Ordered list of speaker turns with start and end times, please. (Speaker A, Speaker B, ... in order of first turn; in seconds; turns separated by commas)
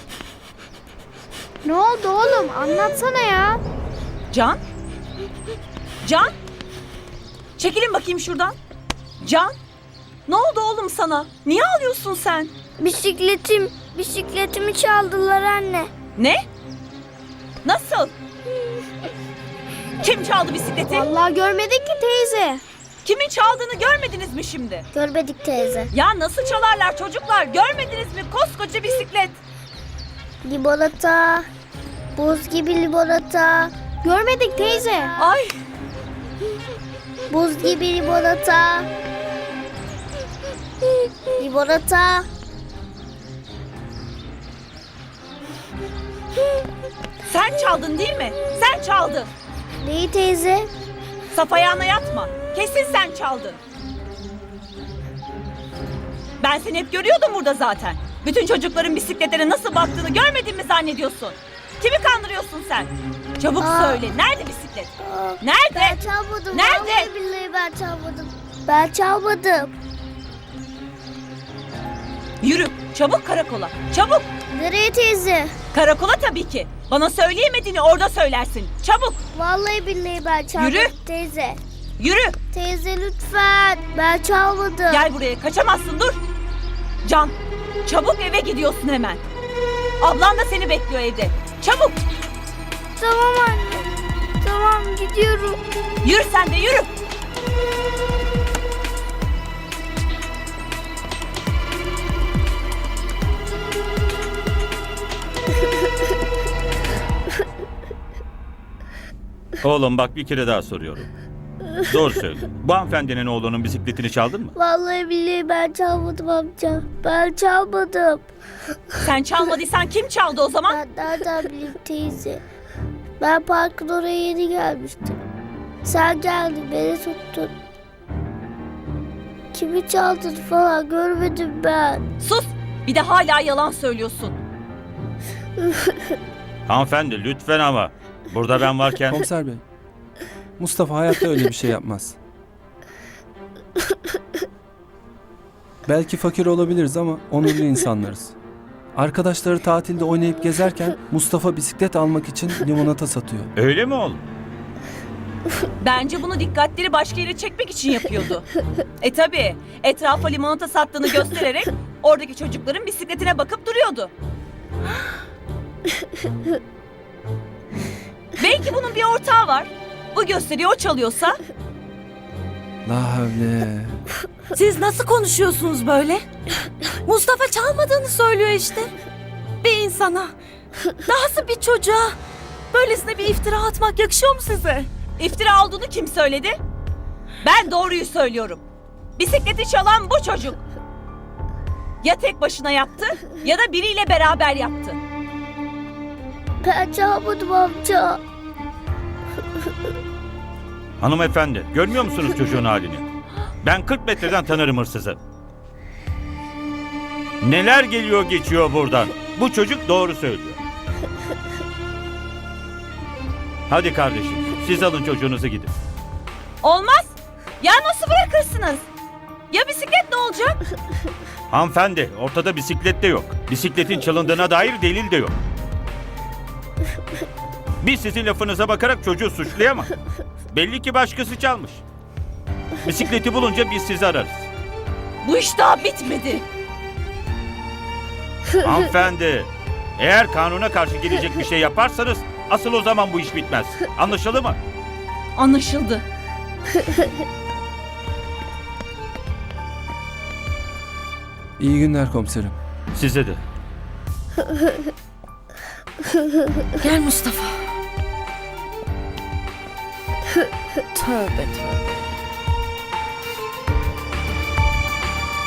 Speaker A: 1.6-3.6, Speaker B: 4.3-4.6, Speaker B: 6.0-6.3, Speaker B: 7.6-8.6, Speaker B: 9.2-9.5, Speaker B: 10.3-12.5, Speaker C: 12.8-15.9, Speaker B: 16.1-16.4, Speaker B: 17.6-18.1, Speaker B: 20.0-21.1, Speaker A: 20.9-22.6, Speaker B: 23.0-24.9, Speaker C: 24.9-25.9, Speaker B: 25.9-29.4, Speaker C: 30.4-31.5, Speaker C: 32.1-33.7, Speaker A: 34.0-35.1, Speaker C: 34.8-35.3, Speaker B: 35.2-35.5, Speaker C: 37.3-38.9, Speaker C: 41.4-42.3, Speaker B: 47.2-49.3, Speaker C: 49.8-50.7, Speaker B: 51.3-53.6, Speaker B: 56.4-66.0, Speaker C: 63.6-64.0, Speaker C: 65.0-69.7, Speaker B: 66.5-67.1, Speaker B: 72.4-74.3, Speaker C: 74.5-75.5, Speaker B: 75.7-79.2, Speaker C: 79.3-81.6, Speaker B: 80.5-80.9, Speaker B: 82.0-82.4, Speaker C: 82.5-85.0, Speaker B: 84.9-86.2, Speaker B: 87.0-89.2, Speaker B: 90.0-92.0, Speaker C: 93.0-93.9, Speaker C: 94.4-95.6, Speaker B: 96.0-96.9, Speaker D: 109.6-111.1, Speaker D: 111.9-114.5, Speaker C: 114.6-118.3, Speaker B: 119.0-120.8, Speaker C: 120.7-122.4, Speaker C: 123.2-125.2, Speaker C: 125.8-127.5, Speaker C: 129.5-132.0, Speaker B: 132.2-134.4, Speaker D: 136.7-139.2, Speaker E: 139.1-139.6, Speaker E: 140.6-142.2, Speaker E: 145.8-148.3, Speaker E: 148.9-153.5, Speaker D: 153.6-154.2, Speaker B: 155.8-158.5, Speaker B: 159.0-164.1, Speaker B: 168.3-171.4, Speaker E: 172.8-174.0, Speaker F: 174.5-176.2, Speaker F: 177.1-178.9, Speaker F: 179.6-180.3, Speaker F: 181.1-182.2, Speaker F: 182.7-184.9, Speaker B: 185.2-186.6, Speaker B: 187.4-188.6, Speaker B: 189.2-190.6, Speaker B: 192.0-195.0, Speaker C: 196.6-198.2, Speaker D: 201.0-203.1, Speaker D: 203.6-205.2, Speaker D: 207.4-210.6, Speaker D: 213.7-215.7, Speaker B: 216.6-218.8, Speaker B: 219.5-220.6, Speaker D: 221.5-225.3, Speaker D: 227.8-229.9, Speaker D: 230.5-231.8, Speaker D: 232.8-234.5, Speaker B: 235.2-236.4, Speaker D: 238.6-244.6, Speaker B: 245.3-246.0, Speaker E: 251.6-252.6, Speaker D: 252.9-253.4, Speaker F: 256.8-257.7, Speaker F: 260.9-261.8